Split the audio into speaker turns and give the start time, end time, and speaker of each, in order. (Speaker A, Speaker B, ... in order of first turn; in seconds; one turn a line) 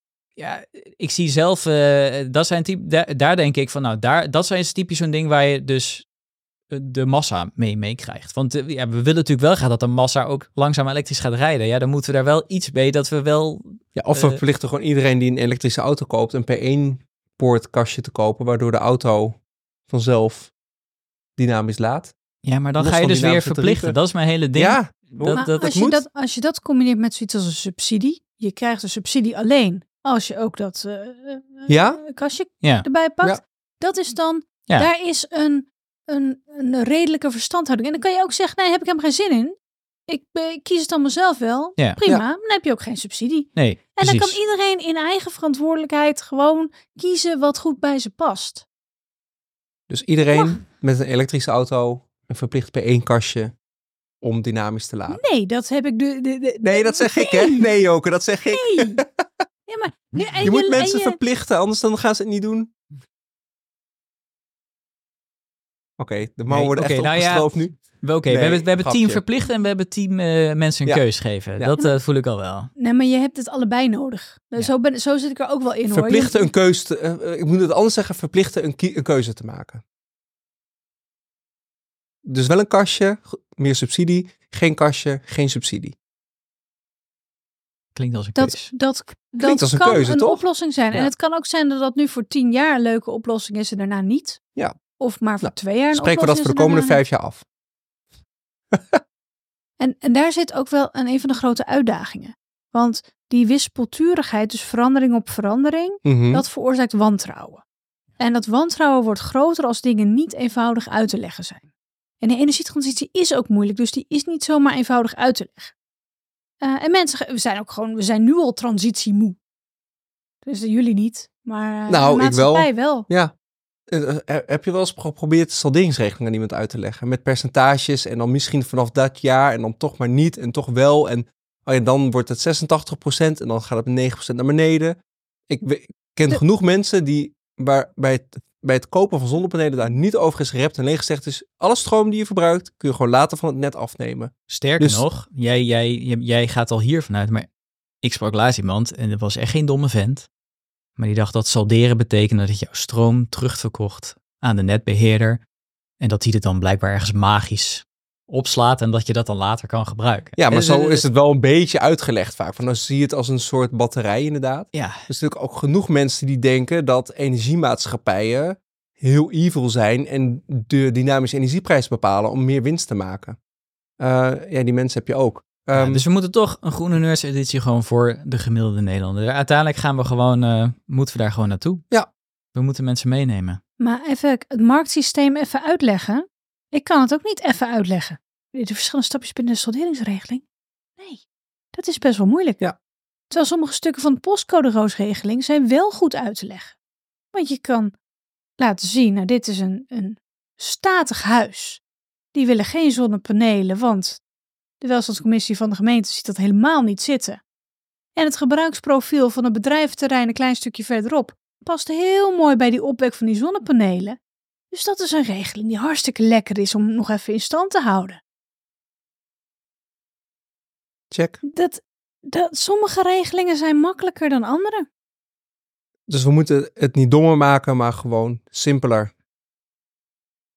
Speaker A: 0.4-6.0
Speaker A: 6.7-14.4
Speaker B: 13.9-20.5
Speaker B: 21.4-22.1
Speaker A: 22.4-25.5
Speaker B: 22.8-24.0
Speaker B: 24.5-26.0
Speaker C: 25.3-39.6
Speaker B: 31.7-32.0
Speaker C: 40.1-48.6
Speaker A: 43.5-44.4
Speaker B: 49.9-53.5
Speaker C: 50.3-50.6
Speaker B: 54.2-55.2
Speaker C: 55.1-57.7
Speaker B: 56.6-59.4
Speaker C: 58.4-59.0
Speaker C: 59.7-61.2
Speaker B: 60.4-62.7
Speaker B: 66.0-69.2
Speaker A: 66.5-72.7
Speaker C: 72.8-76.5
Speaker B: 75.9-79.8
Speaker B: 82.2-86.0
Speaker A: 87.9-88.7
Speaker C: 88.3-94.4
Speaker B: 89.4-91.1
Speaker C: 95.0-97.0
Speaker B: 95.4-97.4
Speaker B: 98.7-99.0
Speaker C: 99.8-107.6
Speaker B: 106.0-106.4
Speaker C: 108.2-111.7
Speaker C: 112.2-115.7
Speaker C: 116.6-119.4
Speaker C: 120.4-123.1
Speaker B: 121.9-123.3
Speaker B: 123.9-135.0
Speaker B: 135.5-145.0
Speaker A: 144.5-147.5
Speaker A: 148.0-150.3
Speaker A: 151.0-155.4
Speaker A: 156.0-161.1
Speaker B: 160.4-173.4
Speaker A: 164.7-165.0
Speaker B: 174.0-176.0
Speaker A: 175.7-181.8
Speaker A: 182.5-183.6
Speaker C: 183.8-190.4
Speaker C: 191.0-192.6
Speaker C: 193.3-196.8
Speaker C: 197.3-197.9
Speaker C: 198.6-201.8
Speaker C: 202.3-204.2
Speaker C: 204.8-207.4
Speaker C: 208.2-214.2
Speaker C: 214.7-218.2
Speaker B: 221.1-221.4
Speaker C: 221.4-224.8
Speaker B: 226.1-229.1